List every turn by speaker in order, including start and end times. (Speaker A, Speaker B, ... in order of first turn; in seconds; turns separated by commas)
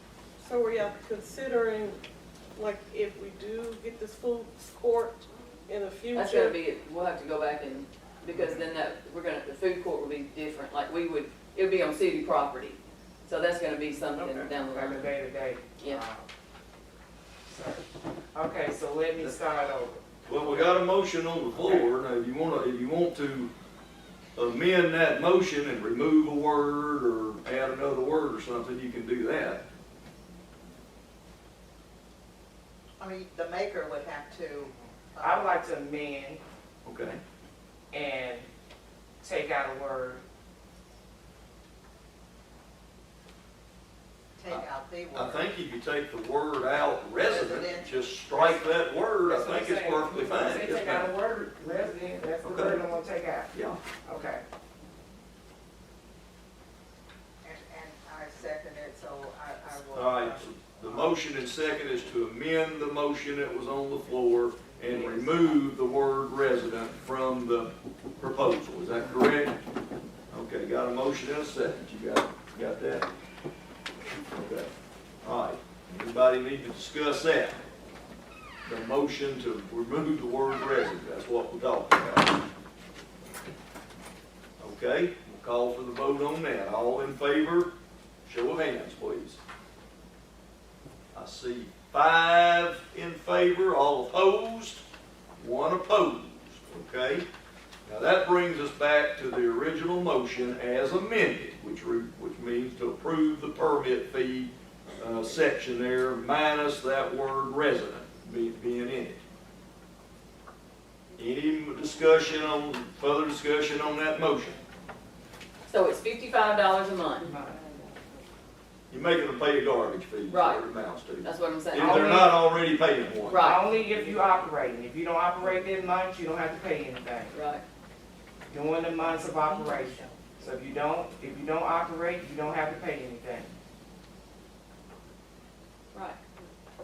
Speaker A: 0.4-2.0, Speaker A: 2.5-6.5, Speaker B: 6.1-15.1, Speaker C: 8.3-8.6, Speaker C: 14.1-16.2, Speaker C: 17.5-17.8, Speaker C: 18.3-20.8, Speaker D: 20.2-23.5, Speaker C: 21.5-21.9, Speaker D: 24.4-29.6, Speaker E: 33.0-33.4, Speaker D: 33.0-35.5, Speaker E: 34.0-34.4, Speaker C: 35.2-36.4, Speaker D: 36.8-37.2, Speaker C: 37.9-38.5, Speaker C: 39.2-40.2, Speaker D: 44.4-51.1, Speaker E: 44.4-45.5, Speaker E: 47.2-48.8, Speaker C: 49.2-53.5, Speaker D: 52.4-52.8, Speaker D: 53.5-53.8, Speaker C: 54.0-54.4, Speaker E: 57.6-61.1, Speaker D: 59.4-69.6, Speaker B: 64.8-65.6, Speaker D: 70.3-73.0, Speaker D: 74.3-74.7, Speaker D: 75.2-77.6, Speaker D: 78.6-82.4, Speaker D: 84.6-87.7, Speaker D: 88.2-89.4, Speaker D: 91.1-94.8, Speaker D: 95.4-97.3, Speaker D: 97.8-109.2, Speaker D: 111.2-114.6, Speaker B: 115.7-117.3, Speaker C: 117.3-117.6, Speaker D: 118.9-123.4, Speaker B: 120.3-120.7, Speaker B: 121.2-122.3, Speaker C: 121.7-122.4, Speaker B: 123.2-123.6, Speaker C: 123.4-127.4, Speaker B: 127.3-127.6, Speaker C: 128.5-133.5, Speaker B: 135.9-136.2